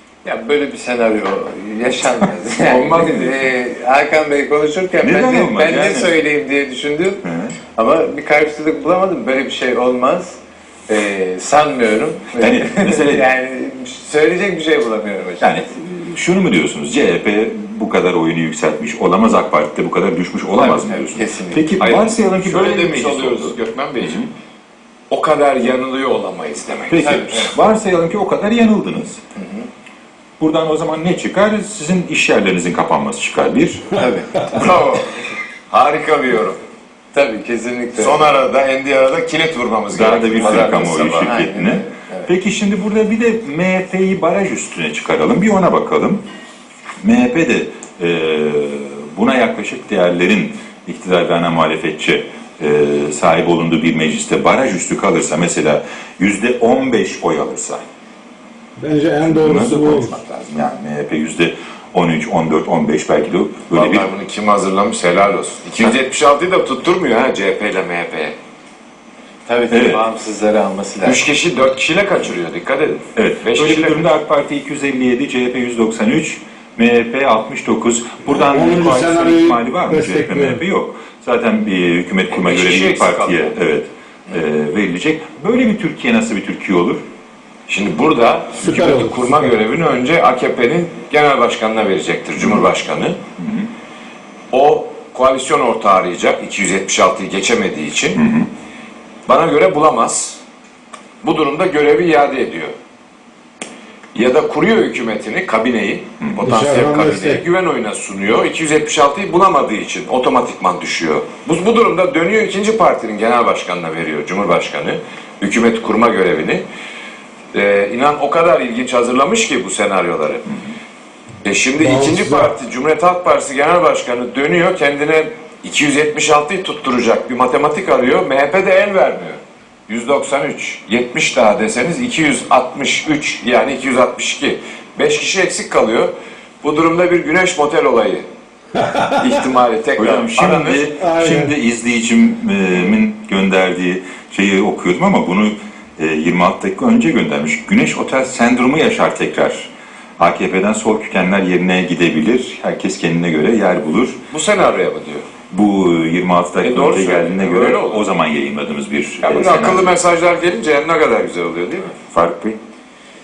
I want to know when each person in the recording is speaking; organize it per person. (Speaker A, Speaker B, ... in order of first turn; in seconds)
Speaker A: 0.2-7.2, 7.8-15.6, 20.5-21.8, 29.4-29.7, 34.0-34.5, 37.1-38.3, 40.4-42.3, 69.5-71.2
Speaker B: 2.7-3.4, 21.8-24.2, 25.1-27.5, 34.1-36.6, 38.0-41.3, 63.7-68.3, 71.0-74.1, 82.3-83.5, 87.7-93.2, 94.5-98.2, 99.3-100.4, 101.2-102.7, 104.1-116.6, 117.5-120.5, 121.4-136.1, 136.6-138.2, 139.1-140.9, 154.3-155.3, 156.6-158.1, 159.2-162.0
Speaker C: 5.0-6.1, 7.2-7.6, 12.4-13.3, 15.4-24.3, 26.9-29.2, 30.4-34.0, 39.9-46.2, 47.0-57.8, 59.3-64.0, 69.7-70.0, 73.2-87.0, 93.4-93.7, 98.2-98.5, 140.0-149.7, 150.2-154.2, 155.5-159.9, 162.1-162.6
Speaker D: 58.8-60.1, 78.3-80.6, 88.6-89.5, 106.4-107.4, 121.8-122.5, 138.8-139.1, 140.9-141.5